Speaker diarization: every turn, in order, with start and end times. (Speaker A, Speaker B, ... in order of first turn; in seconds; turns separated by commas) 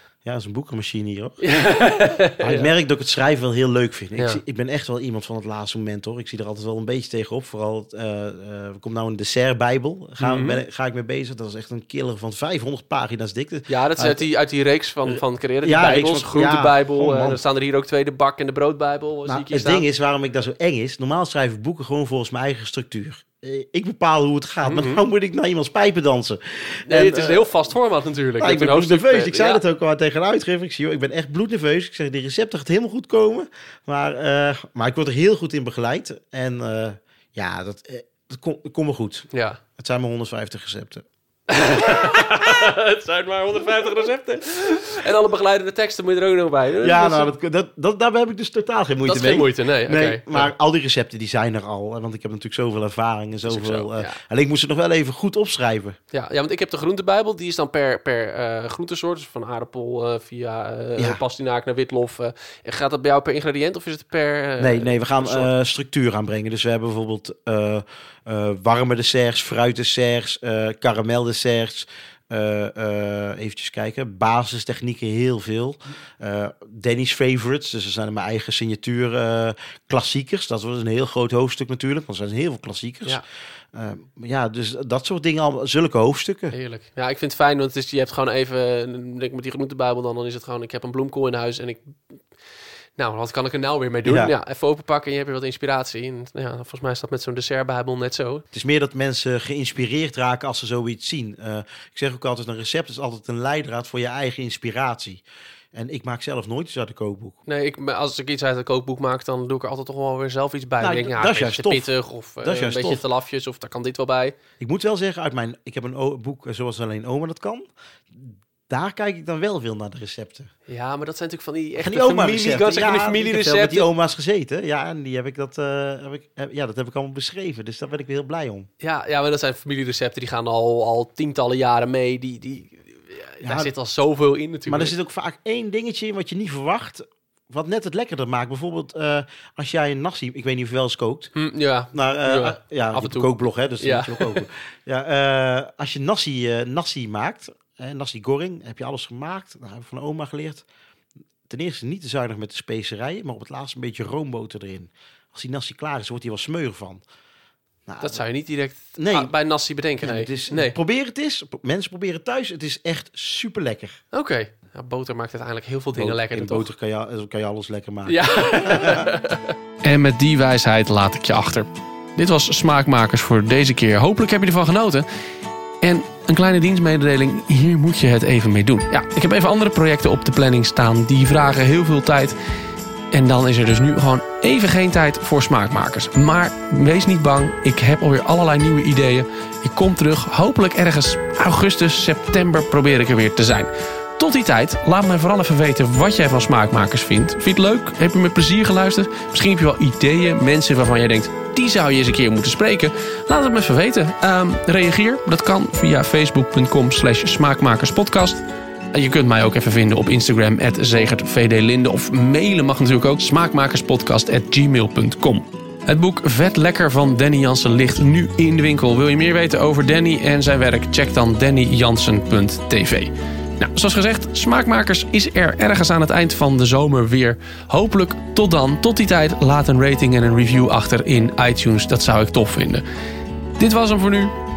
Speaker A: 0.2-1.5, Speaker B: 1.4-2.7, Speaker A: 2.4-14.2, Speaker B: 10.2-10.6, Speaker B: 13.7-19.8, Speaker A: 15.1-17.4, Speaker A: 19.2-27.5, Speaker B: 24.6-25.0, Speaker B: 26.9-29.6, Speaker A: 28.4-41.0, Speaker B: 39.3-39.6, Speaker B: 41.5-47.3, Speaker A: 46.8-56.0, Speaker B: 49.0-50.5, Speaker B: 53.4-54.2, Speaker B: 56.1-65.5, Speaker A: 64.6-83.2, Speaker A: 83.7-86.5, Speaker B: 86.5-92.2, Speaker B: 93.0-98.4, Speaker A: 94.0-94.3, Speaker A: 98.5-105.2, Speaker A: 105.7-107.4, Speaker B: 107.5-114.4, Speaker A: 110.8-111.9, Speaker A: 112.4-113.0, Speaker A: 114.6-120.5, Speaker B: 120.7-123.9, Speaker A: 121.8-128.7, Speaker B: 128.8-134.9, Speaker A: 133.4-133.7, Speaker A: 134.7-141.3, Speaker B: 141.3-144.4, Speaker A: 141.9-150.6, Speaker A: 151.5-157.0, Speaker A: 157.9-158.2, Speaker B: 158.0-160.8, Speaker A: 159.0-159.3, Speaker A: 160.0-164.0, Speaker B: 164.1-166.7, Speaker A: 165.9-169.1, Speaker B: 168.1-175.0, Speaker B: 175.8-182.3, Speaker B: 183.1-208.4, Speaker B: 208.9-232.8, Speaker B: 233.6-234.3